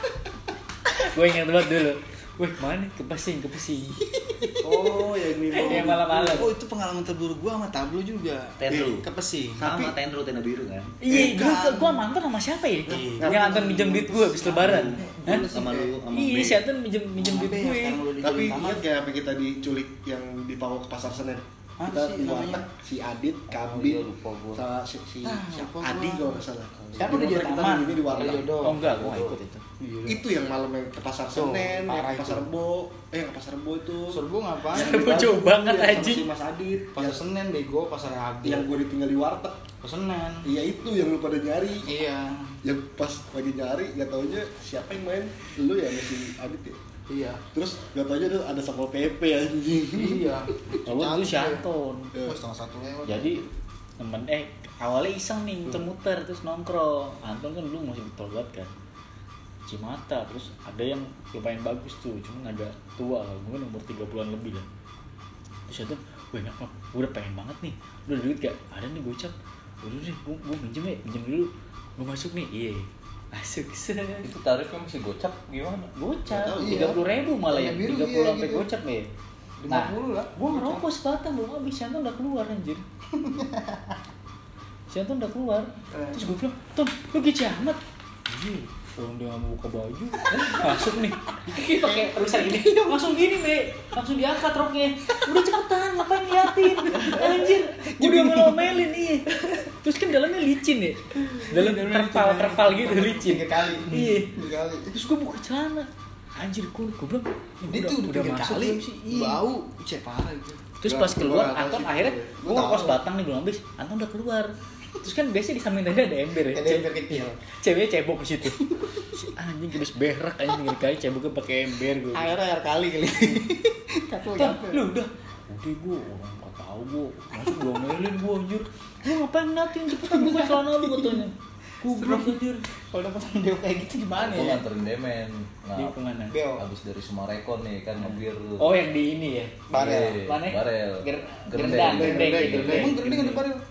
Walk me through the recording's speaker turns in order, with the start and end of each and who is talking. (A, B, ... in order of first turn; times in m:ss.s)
0:00.9-0:04.0 A
0:04.1-0:04.9 B
0:04.6-0:06.5 C
0:05.5-0:06.5 A
0:05.5-0:09.6 B
0:08.6-0:09.0 D
0:08.7-0:08.9 C
0:09.6-0:09.9 C
0:09.6-0:10.9 D
0:11.0-0:15.4 A
0:11.1-0:12.1 B
0:11.1-0:11.4 C
0:12.9-0:13.6 B
0:12.9-0:14.8 C
0:14.4-0:16.0 B
0:14.7-0:16.6 D
0:16.1-0:18.0 A
0:17.2-0:18.8 B
0:18.2-0:28.5 C
0:21.8-0:22.6 B
0:23.5-0:24.6 E
0:25.2-0:26.4 B
0:27.0-0:30.2 B
0:28.6-0:29.6 A
0:30.0-0:34.2 C
0:31.3-0:32.5 B
0:34.1-0:36.1 B
0:34.7-0:37.2 C
0:34.7-0:36.2 A
0:36.9-0:38.7 B
0:38.4-0:39.6 C
0:39.8-0:40.5 B
0:40.4-0:41.9 C
0:41.8-0:42.6 B
0:42.6-0:46.8 C
0:47.1-0:47.4 B
0:47.5-0:51.5 C
0:49.9-0:50.5 B
0:50.8-0:52.1 A
0:51.0-0:51.6 B
0:52.1-0:52.4 C
0:52.2-0:53.4 B
0:53.0-0:53.4 A
0:54.0-0:58.7 A
0:59.7-1:04.7 A
1:05.7-1:14.3 A
1:14.2-1:15.9 E
1:15.9-1:19.1 A
1:16.3-1:18.6 C
1:16.4-1:17.0 B
1:18.0-1:18.5 B
1:19.6-1:20.8 B
1:19.7-1:22.8 A
1:23.1-1:24.0 B
1:24.9-1:44.3 A
1:25.9-1:26.2 B
1:30.2-1:30.9 B
1:31.4-1:33.4 B
1:35.1-1:35.5 B
1:36.2-1:39.6 B
1:41.2-1:44.9 B
1:44.9-1:49.4 A
1:47.7-1:50.7 B
1:50.8-1:58.6 A
1:50.8-1:52.4 C
1:52.4-1:53.0 B
1:56.5-1:57.4 B
1:58.4-1:59.2 B
1:59.2-2:02.3 A
2:02.1-2:04.8 B
2:04.2-2:12.6 A
2:07.3-2:07.7 B
2:09.8-2:11.2 B
2:11.8-2:14.6 B
2:14.2-2:16.0 E
2:15.8-2:16.3 A
2:16.3-2:16.6 B
2:16.6-2:18.7 E
2:18.0-2:23.3 A
2:19.7-2:22.9 E
2:19.7-2:20.2 B
2:21.7-2:23.3 C
2:22.7-2:23.6 B